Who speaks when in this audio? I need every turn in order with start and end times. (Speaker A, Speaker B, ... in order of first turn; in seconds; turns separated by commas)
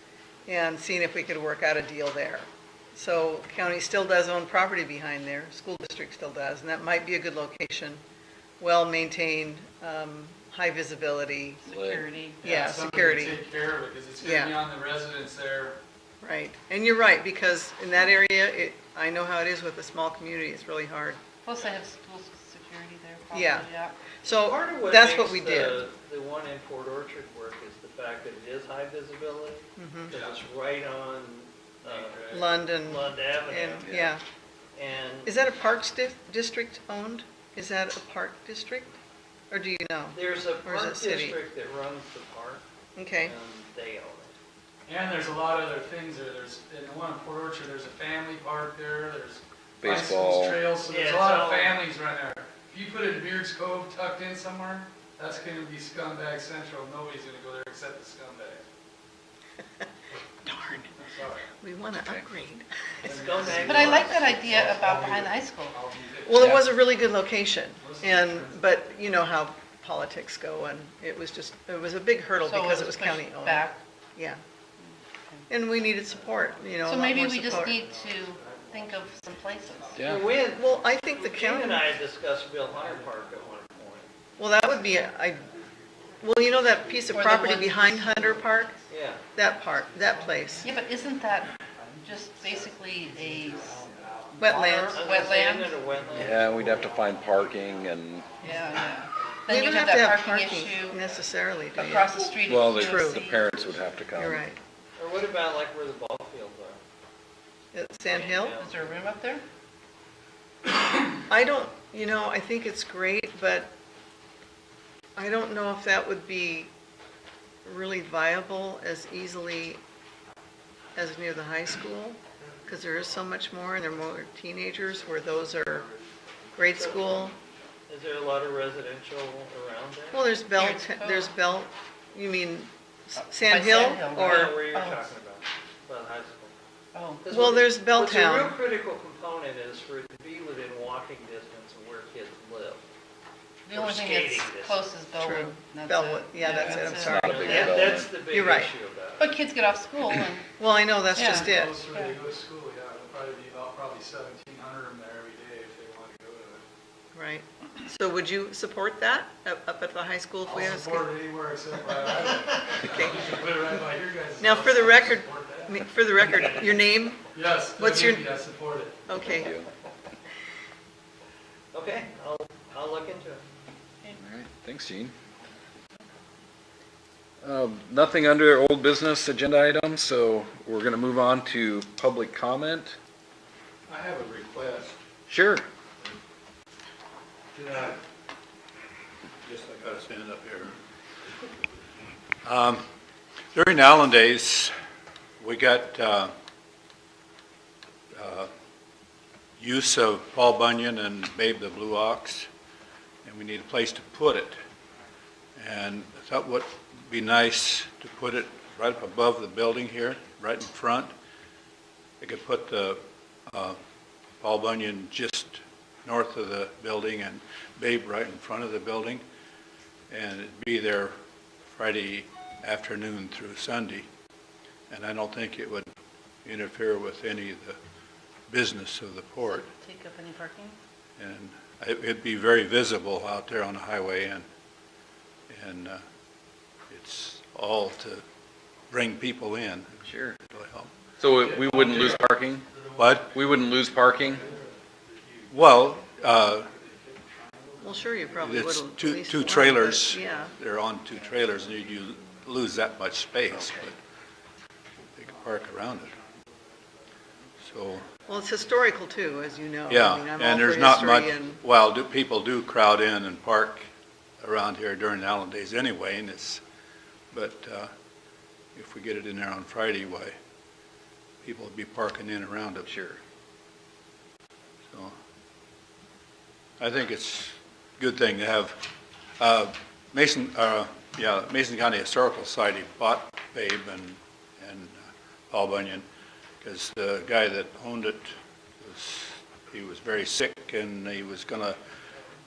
Speaker A: 0.5-8.0, Speaker A: 8.6-11.6, Speaker B: 11.6-12.4, Speaker C: 11.7-12.0, Speaker D: 12.4-15.8, Speaker A: 12.4-13.4, Speaker A: 14.2-14.6, Speaker A: 16.2-21.2, Speaker B: 21.4-24.0, Speaker A: 23.3-23.7, Speaker A: 24.2-25.9, Speaker E: 24.2-33.9, Speaker A: 29.8-30.1, Speaker D: 30.1-30.4, Speaker D: 31.8-32.6, Speaker A: 32.3-34.2, Speaker C: 33.8-34.1, Speaker E: 34.7-35.3, Speaker A: 35.2-38.9, Speaker A: 39.5-41.4, Speaker E: 40.1-42.6, Speaker A: 42.9-43.3, Speaker E: 43.2-44.3, Speaker D: 44.9-58.6, Speaker C: 49.8-50.6, Speaker E: 50.8-51.8, Speaker A: 60.4-60.9, Speaker D: 60.7-61.5, Speaker A: 61.6-63.5, Speaker E: 63.0-64.6, Speaker D: 63.0-66.6, Speaker B: 63.5-65.8, Speaker A: 66.2-74.4, Speaker D: 67.8-68.8, Speaker B: 72.3-73.8, Speaker B: 74.8-75.5, Speaker A: 75.5-77.8, Speaker B: 76.8-80.0, Speaker D: 77.4-80.8, Speaker E: 78.3-79.0, Speaker C: 80.0-80.2, Speaker E: 80.0-84.1, Speaker A: 80.4-81.9, Speaker D: 82.7-83.7, Speaker A: 84.4-85.4, Speaker D: 85.4-88.9, Speaker A: 86.2-88.7, Speaker B: 87.1-88.3, Speaker E: 88.9-89.2, Speaker A: 89.3-90.7, Speaker D: 89.7-99.5, Speaker B: 90.6-95.8, Speaker A: 94.4-95.0, Speaker E: 94.7-96.5, Speaker C: 96.1-98.3, Speaker B: 98.4-101.0, Speaker A: 99.5-103.2, Speaker D: 100.8-101.1, Speaker B: 101.7-103.8, Speaker C: 102.5-104.4, Speaker A: 104.1-104.6, Speaker E: 105.0-106.8, Speaker A: 107.7-108.6, Speaker E: 108.1-109.0, Speaker B: 108.6-109.4, Speaker A: 111.3-113.7, Speaker A: 115.2-116.7, Speaker A: 117.6-119.8, Speaker A: 120.9-125.9, Speaker D: 122.4-123.9, Speaker D: 124.8-126.2, Speaker A: 126.5-127.3, Speaker E: 126.8-127.2, Speaker E: 127.9-130.2, Speaker A: 130.1-134.6, Speaker B: 130.5-131.4, Speaker B: 133.2-135.1, Speaker E: 133.6-136.5, Speaker B: 136.9-137.3, Speaker E: 137.2-142.8, Speaker A: 137.3-138.6, Speaker B: 143.7-147.8, Speaker E: 143.7-144.8, Speaker A: 145.2-148.7, Speaker C: 147.1-148.2, Speaker E: 147.3-149.4, Speaker B: 149.2-150.4, Speaker A: 150.6-151.7, Speaker D: 151.1-156.6, Speaker B: 151.1-152.2, Speaker A: 157.1-161.1, Speaker D: 160.4-165.8, Speaker A: 162.9-163.4, Speaker A: 164.4-167.2, Speaker D: 167.3-169.0, Speaker A: 167.7-168.3, Speaker A: 169.1-169.5, Speaker C: 169.2-169.7, Speaker E: 171.7-173.4, Speaker C: 174.1-175.1, Speaker C: 177.4-182.9, Speaker F: 183.9-185.0, Speaker C: 185.3-185.7, Speaker F: 187.5-188.0, Speaker F: 189.4-190.7, Speaker F: 192.4-192.8, Speaker F: 193.5-194.7, Speaker F: 195.4-196.3, Speaker F: 198.1-198.5, Speaker F: 199.6-202.5, Speaker F: 203.2-204.5, Speaker F: 205.6-211.1, Speaker F: 212.2-213.8, Speaker F: 214.4-219.2, Speaker F: 220.1-221.1, Speaker F: 221.7-224.1, Speaker F: 224.9-225.9, Speaker F: 226.4-227.8, Speaker F: 228.5-229.7, Speaker B: 229.4-230.8, Speaker F: 231.2-234.5, Speaker F: 235.5-236.0, Speaker F: 236.9-238.2, Speaker F: 238.9-240.9, Speaker C: 240.0-240.4, Speaker C: 241.2-242.7, Speaker D: 241.2-245.8, Speaker F: 242.9-243.4, Speaker C: 243.3-244.4, Speaker F: 245.5-246.7, Speaker D: 246.4-248.4, Speaker A: 247.8-250.5, Speaker F: 248.4-253.9, Speaker D: 250.2-250.5, Speaker F: 255.2-256.1, Speaker D: 255.4-258.8, Speaker F: 257.6-258.1, Speaker A: 258.3-261.6, Speaker F: 259.9-263.9, Speaker F: 264.4-266.6, Speaker F: 267.3-267.9, Speaker F: 268.7-270.3, Speaker F: 271.4-272.9, Speaker C: 272.8-273.2, Speaker F: 276.8-284.9, Speaker F: 285.5-286.1, Speaker F: 286.6-288.3, Speaker F: 288.8-291.8